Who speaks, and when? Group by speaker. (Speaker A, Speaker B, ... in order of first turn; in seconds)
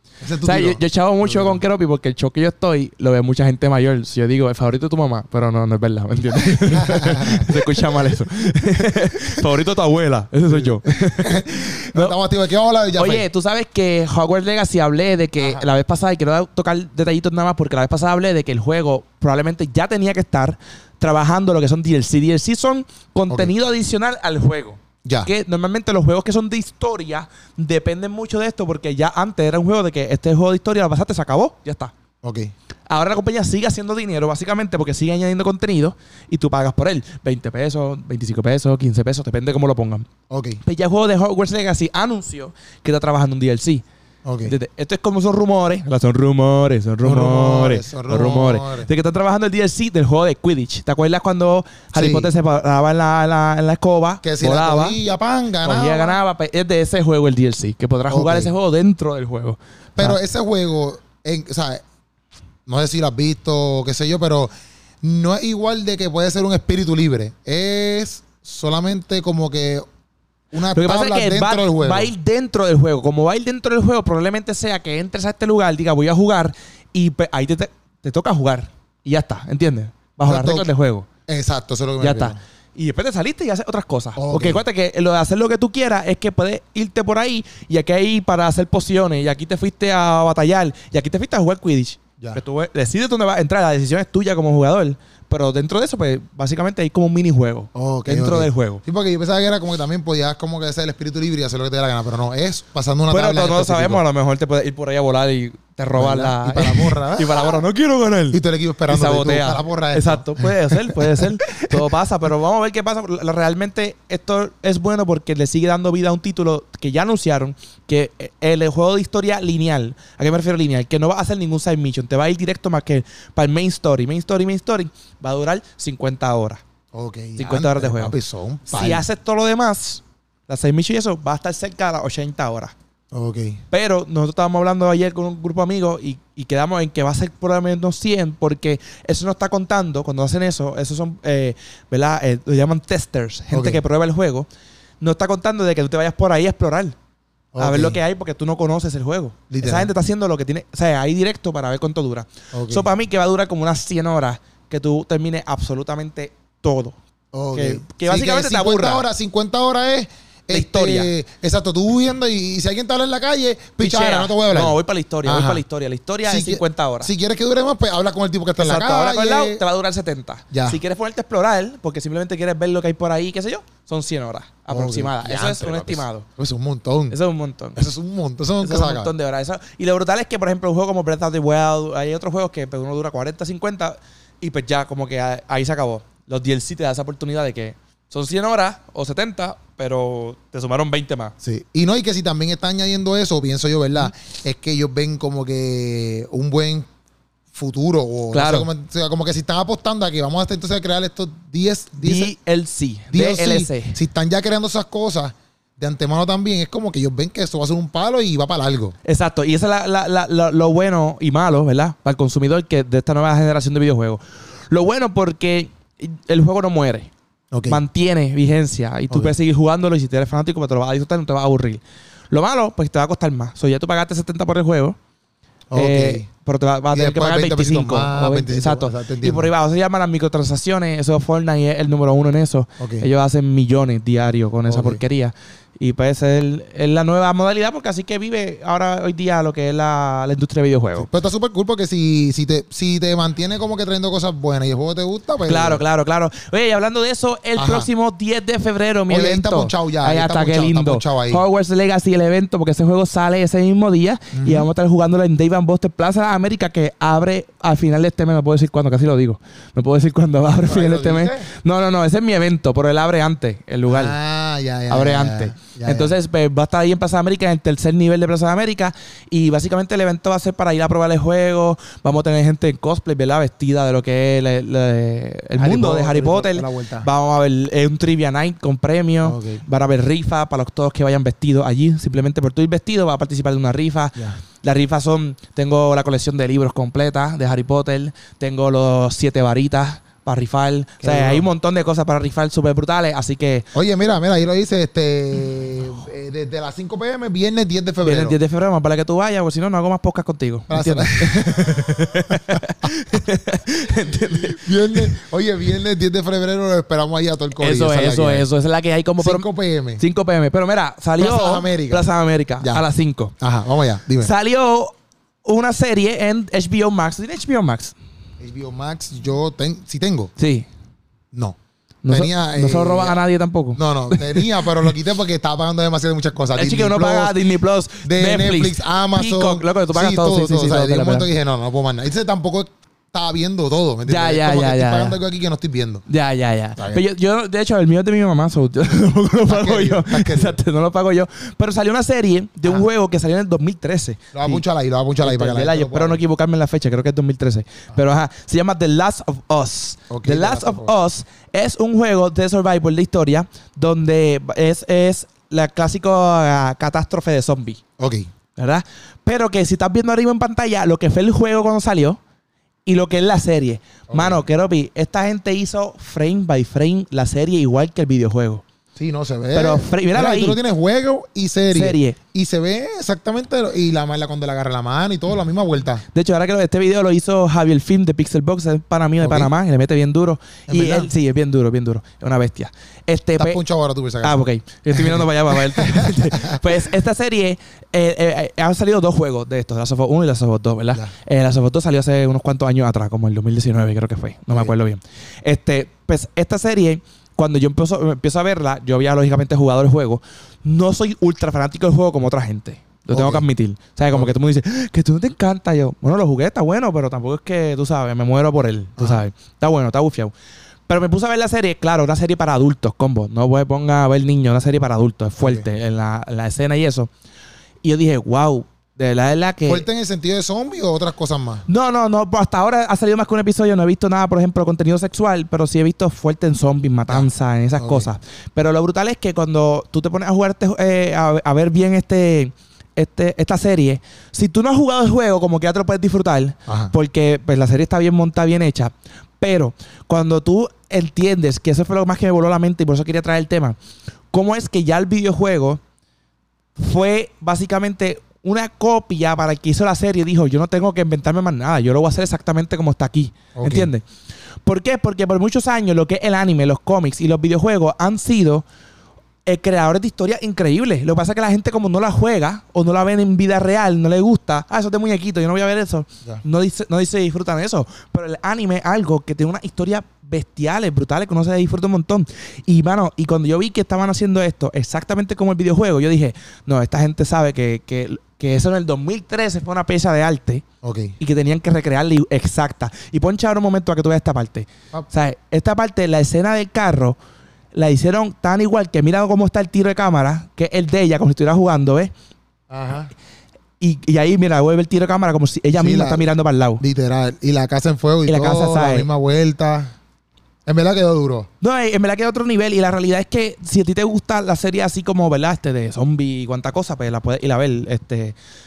Speaker A: 0.2-1.6, 6.5-8.2, 8.8-9.1, 10.5-13.3, 15.4-15.6, 25.0-25.3, 32.2-32.5, 40.3-40.6, 44.2-44.5, 47.0-48.9, 51.9-52.3, 54.2-56.2, 58.1-58.5, 60.0-61.8, 62.7-64.5, 65.0-69.8, 70.5-72.1, 80.2-80.7, 81.3-82.4, 84.2-84.6, 97.7-104.0, 106.0-107.6, 108.3-111.8, 126.9-129.1, 133.1-133.6, 143.5-143.8, 147.5-148.0, 149.5-149.9, 152.5-152.9, 157.3-165.6, 166.2-169.6, 170.5-170.8, 174.7-177.2, 177.8-179.1, 191.4-196.9, 197.5-202.3, 203.1-208.9, 217.5-217.8, 219.1-219.3, 225.7-226.3, 226.9-229.5, 232.8-233.1, 234.7-235.0, 240.9-245.8, 247.6-247.9, 249.1-251.4, 254.3-254.7, 260.5-261.5, 263.9-266.2, 275.6-277.1, 279.2-279.6, 291.0-291.5, 293.7-298.4, 300.7-302.6, 304.3-308.5, 309.2-310.0, 311.2-312.1, 313.4-314.3, 318.4-320.3, 322.1-323.2, 323.8-327.4, 328.0-336.0, 336.8-337.0, 339.5-340.6, 344.3-346.2, 350.1-350.9, 358.0-358.3, 364.1-364.4, 369.0-376.0, 379.2-379.5, 380.7-381.1, 383.4-386.6, 403.1-403.5, 409.0-409.2, 415.4-415.7, 419.7-421.6, 427.1-428.1, 436.7-436.9, 453.6-453.9, 480.8-481.1, 492.7-493.1, 495.8-496.2, 496.8-499.9, 500.7-501.5
Speaker B: 0.4-12.2, 12.9-31.9, 32.9-40.1, 40.6-43.8, 44.4-55.0, 55.6-60.2, 70.7-81.1, 82.0-98.8, 103.1-126.6, 127.4-128.2, 128.7-132.7, 133.7-144.5, 145.0-146.9, 147.6-157.0, 157.5-159.1, 160.5-161.1, 163.8-167.1, 168.6-176.3, 177.1-177.8, 178.6-191.3, 198.3-198.7, 202.0-204.0, 209.1-217.1, 217.7-225.0, 225.7-241.1, 245.5-264.1, 264.9-293.7, 298.0-305.1, 307.6-309.4, 310.0-313.3, 314.2-314.9, 315.4-317.9, 320.4-320.7, 322.0-324.5, 326.6-331.3, 334.1-335.2, 336.1-344.6, 345.2-357.8, 358.6-362.2, 362.9-368.6, 369.5-370.6, 371.7-372.2, 376.1-383.6, 384.2-410.3, 410.9-417.1, 417.8-419.9, 421.7-443.8, 444.3-445.8, 446.8-454.1, 454.6-458.6, 459.5-480.6, 481.2-487.2, 487.7-492.1, 493.8-496.8, 498.3-499.1, 501.6-508.4